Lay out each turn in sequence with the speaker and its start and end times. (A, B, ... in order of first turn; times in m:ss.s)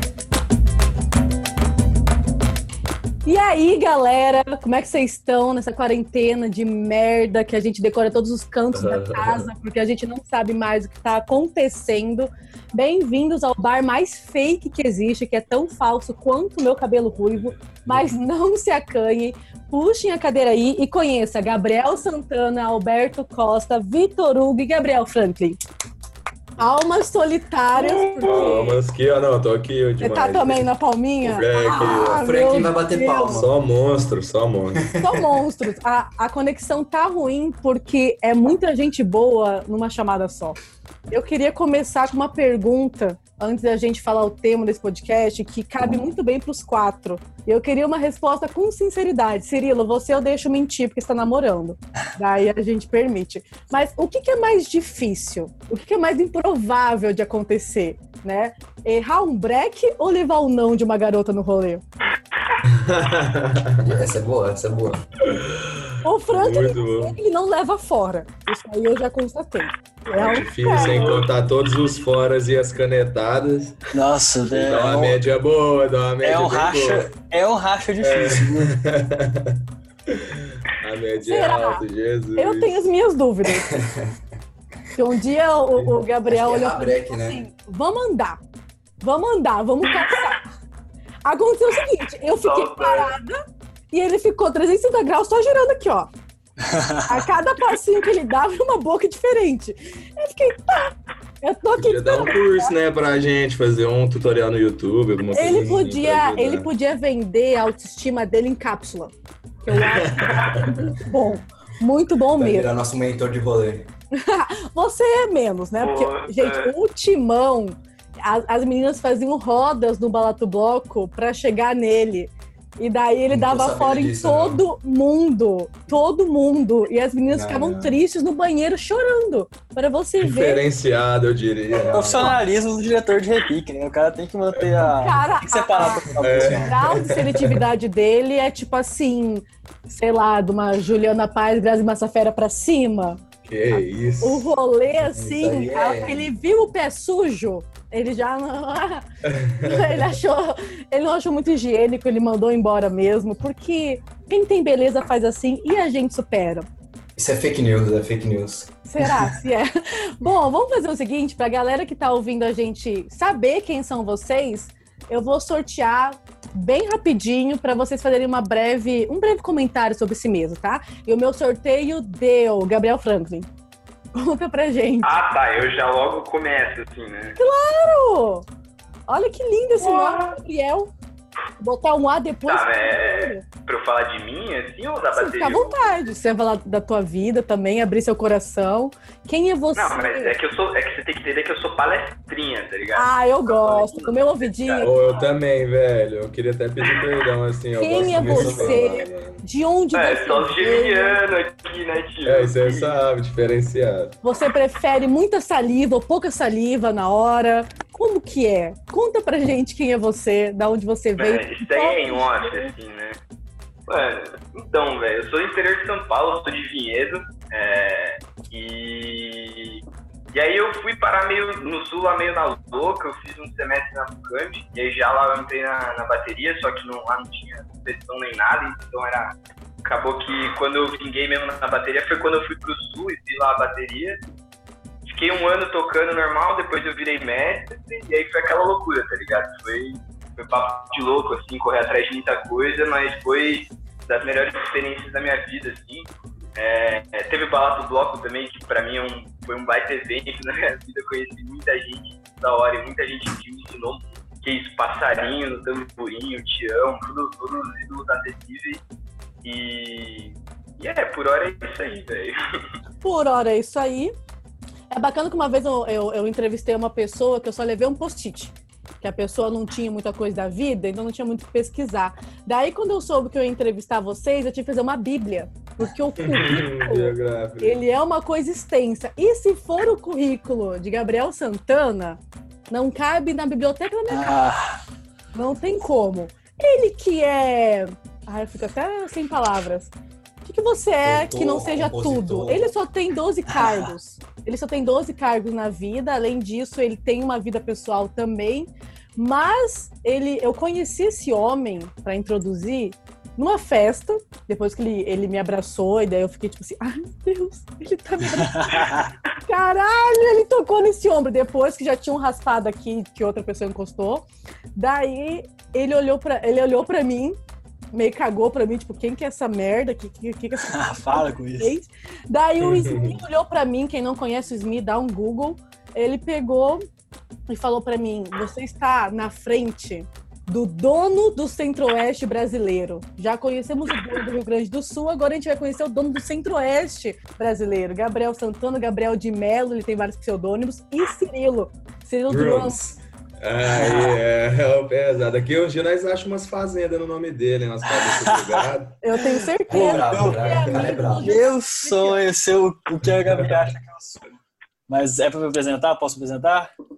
0:03.2-0:25.6 A
0:08.7-0:09.5 B
0:17.8-0:18.2 B
0:26.6-0:28.8 A
0:27.8-0:28.6 C
0:28.2-0:30.7 B
0:30.0-0:33.4 A
0:31.2-0:32.3 B
0:32.1-0:33.6 D
0:33.3-0:34.9 B
0:34.8-0:35.3 D
0:35.0-0:40.6 A
0:41.1-1:01.8 A
1:02.6-1:04.0 B
1:03.8-1:05.0 D
1:05.3-1:07.2 B
1:06.0-1:11.1 A
1:10.1-1:13.8 B
1:10.7-1:11.3 C
1:13.9-1:15.2 E
1:14.5-1:17.1 B
1:16.2-1:18.7 E
1:18.0-1:22.9 B
1:21.2-1:21.8 A
1:22.4-1:23.8 A
1:23.5-1:24.2 D
1:25.0-1:28.4 A
1:26.2-1:27.4 D
1:29.0-1:30.4 A
1:31.2-1:33.4 A
1:32.4-1:33.1 C
1:33.9-1:36.1 A
1:36.6-1:37.2 E
1:37.1-1:42.7 A
1:41.8-1:46.7 B
1:45.3-1:49.1 A
1:49.6-1:52.7 A
1:49.7-1:50.8 B
1:50.3-1:50.6 C
1:52.4-1:53.9 D
1:54.2-2:10.6 A
1:55.8-1:56.7 C
2:03.3-2:04.6 D
2:07.3-2:08.0 D
2:10.2-2:12.4 B
2:11.7-2:12.4 D
2:11.9-2:16.8 E
2:14.6-2:14.9 B
2:15.0-2:23.2 A
2:16.1-2:16.6 D
2:16.2-2:17.6 B
2:23.4-2:24.5 B
2:24.2-2:29.0 A
2:25.0-2:26.3 D
2:29.3-2:30.2 B
2:29.6-2:36.7 A
2:37.2-2:38.7 D
2:38.8-2:53.5 A
2:54.2-2:55.2 A
2:55.0-2:57.4 C
2:57.4-2:58.4 A
2:59.1-3:00.9 A
2:59.8-3:00.4 C
3:01.6-3:03.4 A
3:02.5-3:06.2 C
3:05.1-3:10.4 A
3:09.8-3:15.2 C
3:13.0-3:14.9 A
3:14.8-3:19.4 B
3:16.8-3:17.0 C
3:17.8-3:21.2 A
3:18.0-3:18.9 D
3:19.9-3:22.9 C
3:22.2-3:24.2 B
3:24.2-3:32.7 A
3:31.2-3:33.2 C
3:33.9-3:39.8 C
3:40.3-3:54.2 C
3:55.1-4:18.8 C
4:19.4-4:22.6 C
4:23.0-4:24.1 A
4:24.9-4:44.3 A
4:36.2-4:37.8 B
4:44.1-4:44.8 E
4:45.3-4:49.9 A
4:50.4-5:08.9 A
4:51.0-4:52.7 D
4:53.5-4:53.9 E
5:08.4-5:09.1 E
5:09.5-5:17.4 A
5:17.9-5:26.8 A
5:20.6-5:21.7 E
5:22.6-5:23.2 B
5:27.5-5:42.8 A
5:42.3-5:49.0 B
5:43.7-5:44.2 E
5:47.9-5:48.6 E
5:49.0-5:52.2 A
5:49.7-5:51.4 D
5:49.7-5:50.4 E
5:51.2-5:54.3 E
5:54.9-5:56.7 E